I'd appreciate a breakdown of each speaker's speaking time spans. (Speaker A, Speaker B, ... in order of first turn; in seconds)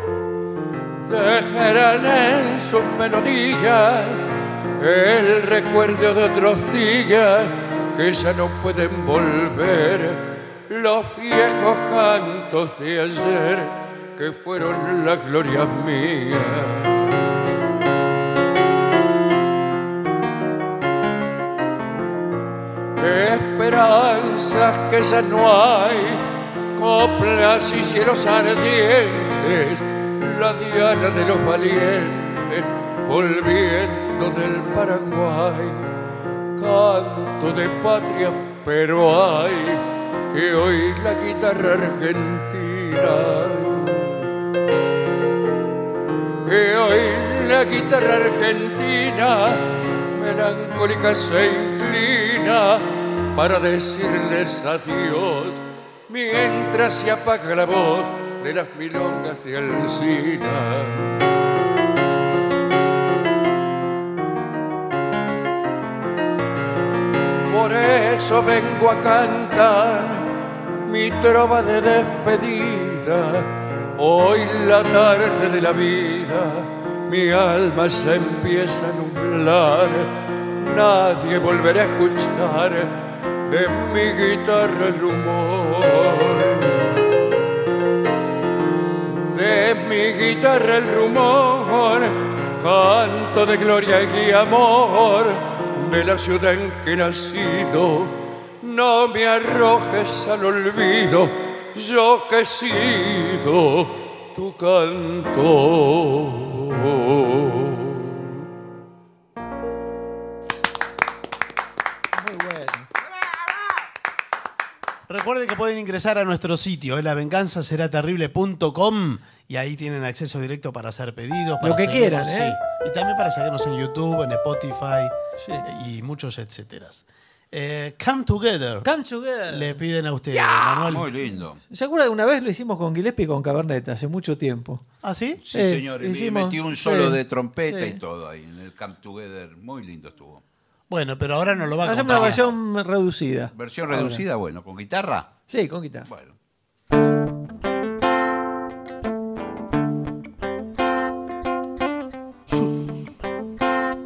Speaker A: 1.0-17.2, 23.0-26.2, 26.8-35.9, 36.6-44.3, 46.4-61.2, 67.5-70.3, 70.8-82.9, 83.4-87.2, 89.1-108.3
Speaker B: 112.2-112.9, 121.6-122.7, 125.4-125.7, 128.8-129.8, 130.3-130.9, 131.5-134.8, 135.5-138.0, 141.8-144.2, 145.5-146.1, 152.5-153.1
Speaker C: 115.1-128.9, 129.5-131.1, 135.0-135.4, 140.9-142.6
Speaker D: 130.9-131.6, 135.4-140.4, 142.0-142.5, 143.5-145.4, 146.1-146.3